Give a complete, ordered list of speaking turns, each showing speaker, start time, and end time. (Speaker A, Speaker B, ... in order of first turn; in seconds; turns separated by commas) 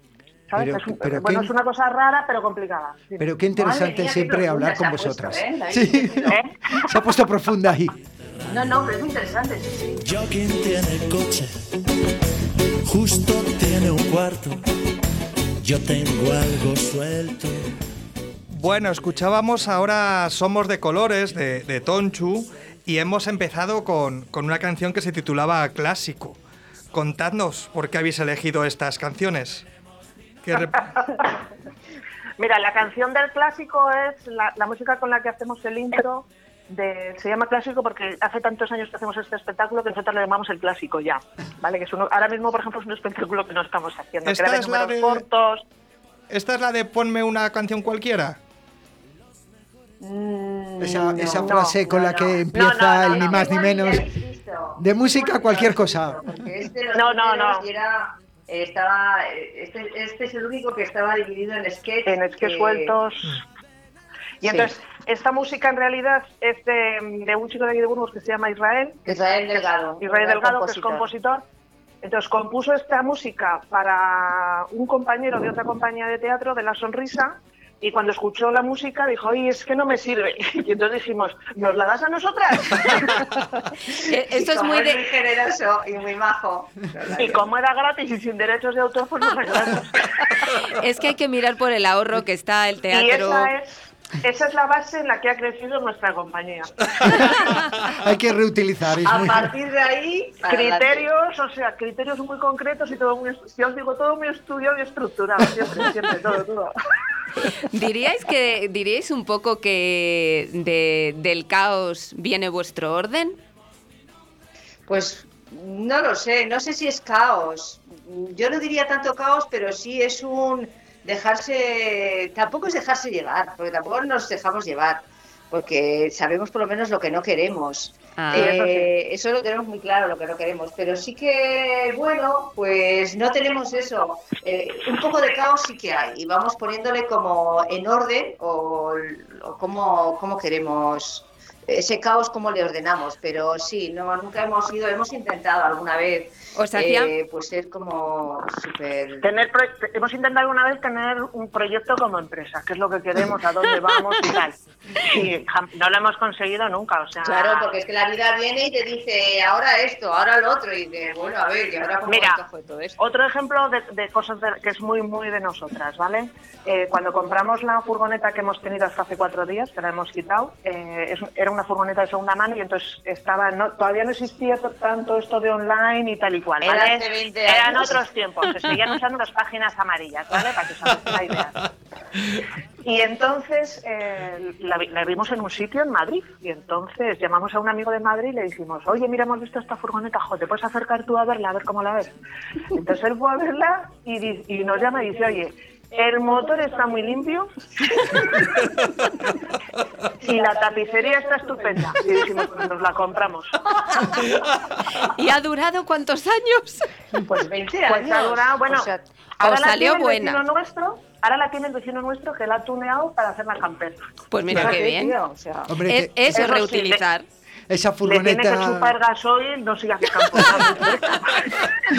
Speaker A: 0.5-3.3, Speaker B: 0.5-1.5, Speaker B: 3.2-7.9, Speaker C: 3.5-6.4, Speaker A: 6.3-6.5, Speaker C: 8.5-9.9, Speaker D: 10.0-11.5, Speaker D: 12.8-14.6, Speaker D: 15.6-17.7, Speaker E: 18.5-26.4, Speaker E: 26.9-29.6, Speaker E: 30.4-30.9, Speaker A: 32.4-45.6, Speaker E: 44.2-45.2, Speaker E: 46.3-48.4, Speaker C: 50.0-63.0, Speaker B: 50.8-54.0, Speaker A: 51.4-53.5, Speaker B: 54.8-56.3, Speaker A: 56.9-57.6, Speaker A: 62.0-63.4, Speaker A: 64.4-69.1, Speaker C: 64.4-64.7, Speaker C: 69.0-71.1, Speaker A: 70.0-71.4, Speaker A: 72.0-83.2, Speaker F: 84.0-85.0, Speaker C: 84.3-87.4, Speaker A: 87.2-90.2, Speaker F: 90.7-93.5, Speaker A: 92.9-93.7, Speaker A: 94.2-97.3, Speaker B: 98.0-99.5, Speaker C: 99.0-101.1, Speaker A: 100.5-106.7, Speaker F: 107.7-113.4, Speaker C: 114.9-149.3, Speaker F: 128.2-128.6, Speaker A: 128.3-128.9, Speaker F: 146.5-147.1, Speaker A: 149.2-154.5, Speaker A: 155.1-157.7, Speaker C: 157.2-163.0, Speaker A: 162.1-162.4, Speaker A: 163.0-181.5, Speaker C: 176.6-178.0, Speaker A: 182.8-192.1, Speaker A: 192.7-197.5, Speaker A: 198.1-198.5, Speaker A: 200.2-204.1, Speaker C: 200.2-202.6, Speaker F: 205.2-206.9, Speaker C: 207.2-209.0, Speaker A: 207.8-215.0, Speaker F: 209.4-210.4, Speaker F: 214.3-215.2, Speaker C: 214.5-215.8, Speaker B: 215.7-216.4, Speaker F: 215.8-217.2, Speaker A: 216.2-217.0, Speaker B: 217.7-218.9, Speaker A: 218.0-221.7